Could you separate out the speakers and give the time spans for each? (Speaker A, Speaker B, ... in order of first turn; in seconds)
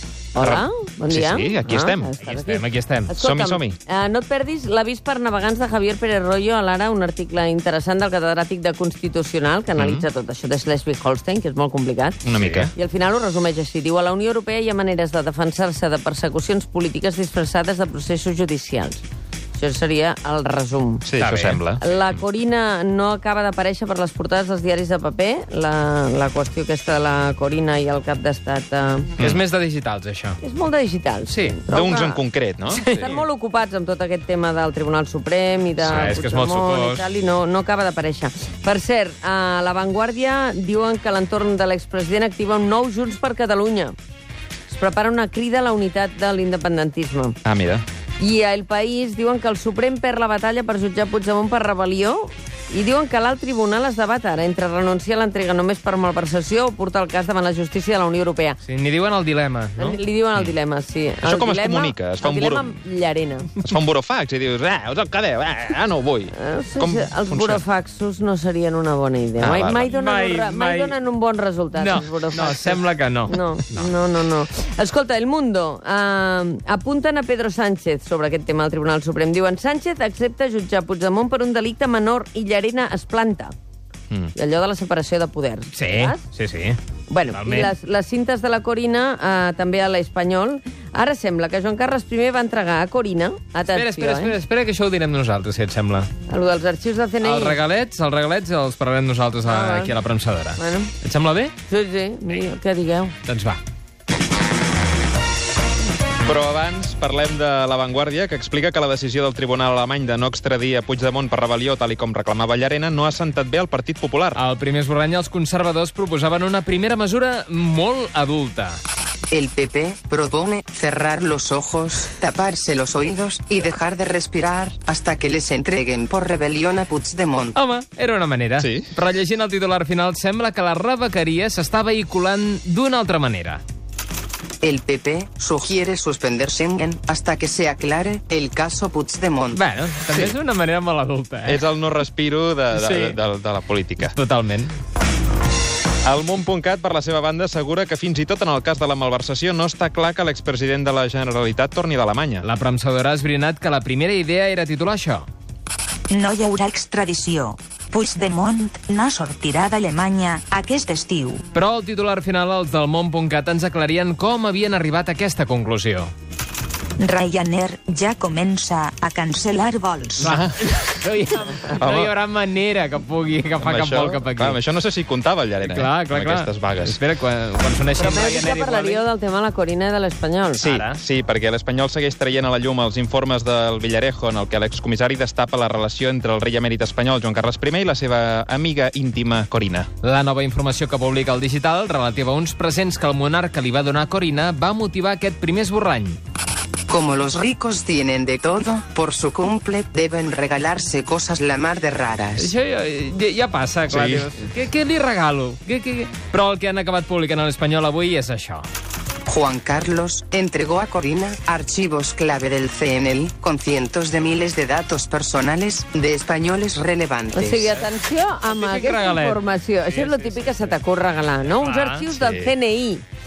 Speaker A: 0.3-12.2, 12.7-19.0, 19.5-21.0, 21.8-29.2, 30.4-43.9, 44.7-47.4, 48.2-58.6, 59.8-63.5, 66.3-83.5, 84.3-86.2, 87.1-94.3, 96.3-97.6, 99.4-99.9, 100.6-100.9, 101.7-103.1, 178.0-180.6, 217.3-223.0
Speaker B: 1.1-1.6, 3.1-3.8, 9.8-10.1, 12.2-12.7, 21.1-21.8, 31.7-33.1, 47.4-47.8, 61.2-62.7, 63.6-67.6, 69.4-69.9, 106.2-114.4, 128.6-128.9, 141.4-144.1, 146.0-152.4, 170.2-170.7, 171.8-172.1, 173.6-177.0, 180.6-189.9, 203.9-204.3, 222.1-222.5
Speaker C: 1.2-3.1, 12.3-12.7, 21.2-21.6, 29.2-30.4, 31.2-31.6, 32.7-33.2, 35.8-37.0, 58.6-60.0, 69.9-71.0, 71.7-73.9, 85.7-86.8, 87.3-87.7, 93.7-96.1, 97.2-101.5, 103.2-103.6, 114.3-118.8, 127.5-133.6, 139.5-141.6, 142.7-143.2, 144.0-144.7, 152.4-155.3, 161.5-166.1, 170.2-174.6, 175.6-179.0, 180.6-181.0, 190.0-196.2, 202.4-208.7, 218.4-220.8, 221.4-222.1
Speaker D: 119.3-127.5, 134.6-139.6, 196.9-202.5, 209.3-217.7
Speaker E: 156.1-161.4, 167.0-170.3